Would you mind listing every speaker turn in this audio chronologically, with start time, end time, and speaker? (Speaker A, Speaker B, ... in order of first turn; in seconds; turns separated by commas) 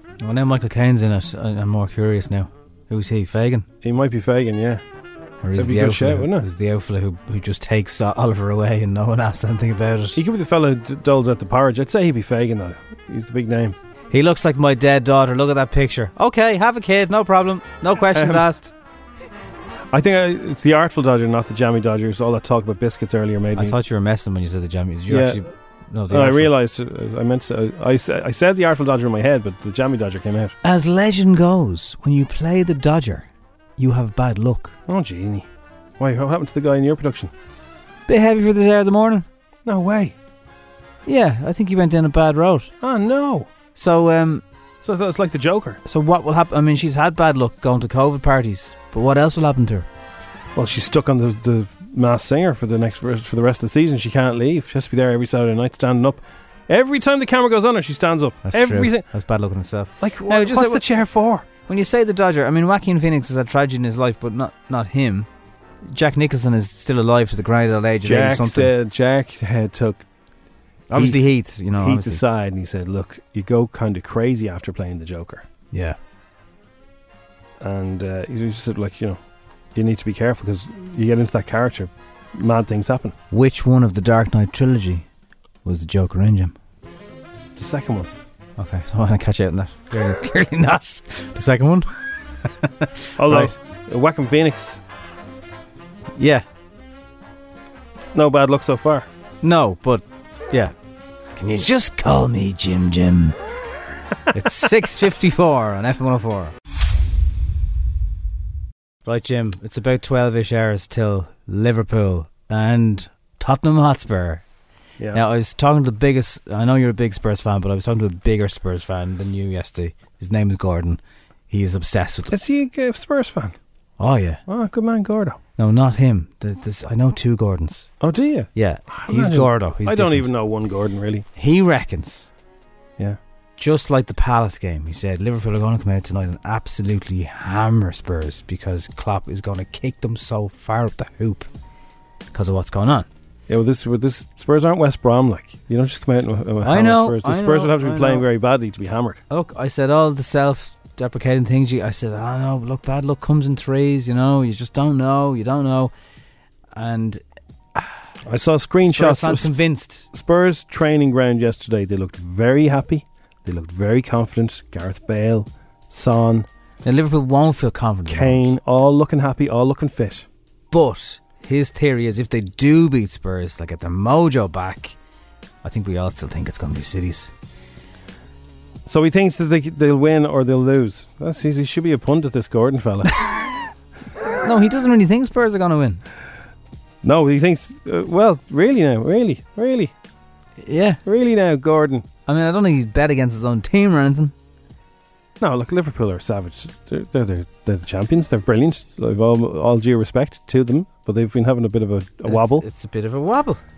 Speaker A: 0.2-3.6, Speaker B: 3.8-4.8, Speaker A: 5.4-10.2, Speaker B: 5.6-6.5, Speaker B: 10.1-13.7, Speaker A: 14.1-18.7, Speaker B: 18.1-18.4, Speaker B: 19.9-23.8, Speaker A: 23.6-26.5, Speaker B: 25.1-25.4, Speaker B: 26.1-30.5, Speaker A: 30.6-34.7, Speaker B: 34.9-35.5, Speaker B: 36.0-37.3, Speaker A: 38.1-39.2, Speaker B: 39.6-40.1, Speaker A: 41.0-42.7, Speaker B: 42.8-43.5, Speaker A: 43.8-44.4, Speaker B: 44.8-45.8, Speaker A: 45.8-49.9, Speaker B: 50.5-59.0, Speaker A: 58.4-60.8, Speaker B: 60.0-61.5, Speaker A: 61.7-65.3, Speaker A: 65.9-68.7, Speaker B: 68.0-70.0, Speaker A: 70.9-72.2, Speaker B: 70.9-75.4, Speaker A: 75.7-76.0, Speaker B: 77.6-79.2, Speaker B: 79.7-83.1, Speaker A: 83.3-85.0, Speaker A: 85.6-86.5, Speaker B: 87.5-88.1, Speaker A: 88.6-91.9, Speaker A: 92.6-93.5, Speaker B: 93.2-94.8, Speaker A: 96.2-96.4, Speaker B: 98.1-99.1, Speaker A: 99.4-100.7, Speaker A: 101.4-103.3, Speaker A: 104.3-106.5, Speaker A: 109.0-114.4, Speaker A: 115.1-122.3, Speaker B: 122.3-123.5, Speaker A: 124.0-124.4, Speaker B: 124.5-125.4, Speaker A: 125.6-127.9, Speaker B: 128.0-131.2, Speaker A: 128.5-130.3, Speaker A: 131.3-132.3, Speaker A: 133.6-141.5, Speaker A: 142.3-143.1, Speaker B: 143.5-149.2, Speaker A: 146.6-148.2, Speaker A: 149.3-155.9, Speaker A: 156.7-157.2, Speaker B: 158.2-159.5, Speaker A: 158.8-160.1, Speaker B: 160.1-166.4, Speaker A: 166.8-168.5, Speaker B: 168.1-170.2, Speaker A: 170.7-174.9, Speaker A: 175.6-177.3, Speaker B: 178.8-183.2, Speaker A: 184.4-186.0, Speaker B: 187.0-189.9, Speaker A: 190.6-191.0, Speaker B: 191.0-192.0, Speaker A: 192.2-194.3, Speaker B: 195.4-202.6, Speaker A: 202.2-203.6